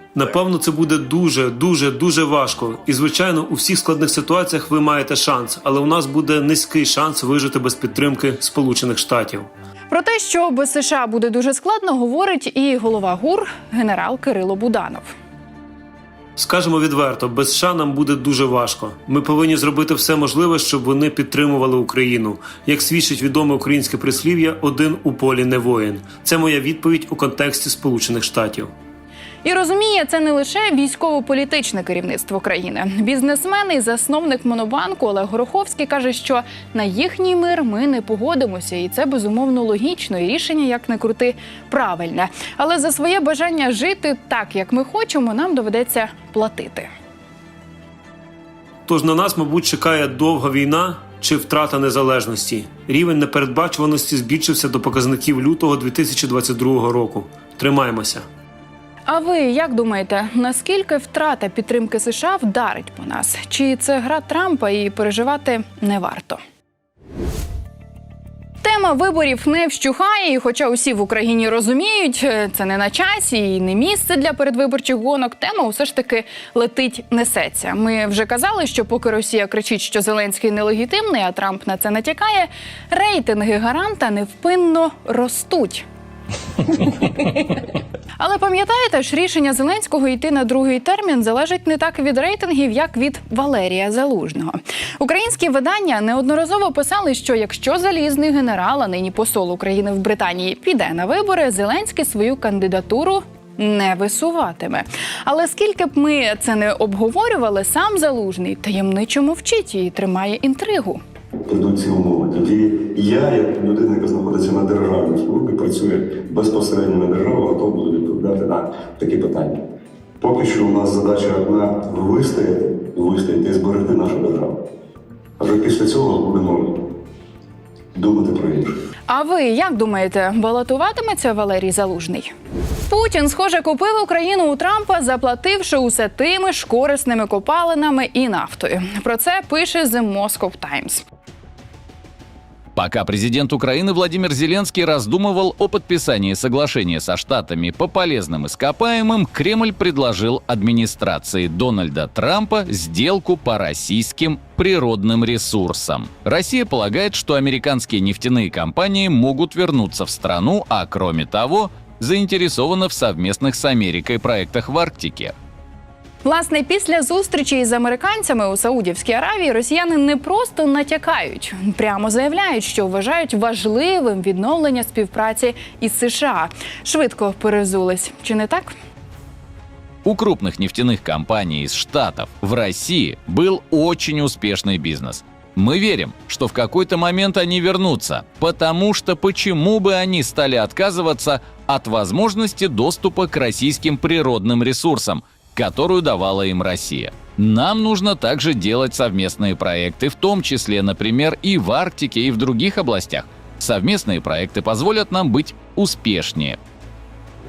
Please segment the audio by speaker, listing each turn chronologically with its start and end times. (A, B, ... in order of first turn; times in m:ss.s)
0:00.1-0:09.5 A
0:09.9-0:15.1 B
0:16.4-0:28.7 A
0:29.4-0:46.9 B
0:48.9-0:58.2 A
0:59.1-1:06.4 B
1:08.6-1:25.8 B
1:28.2-1:51.0 B
1:51.5-1:59.6 C
2:00.2-2:04.6 C
2:05.4-2:06.7 C
2:07.9-2:08.8 C
2:09.1-2:12.3 B
2:12.9-2:21.0 B
2:22.8-2:45.3 D
2:46.2-2:58.7 B
3:00.0-3:26.6 D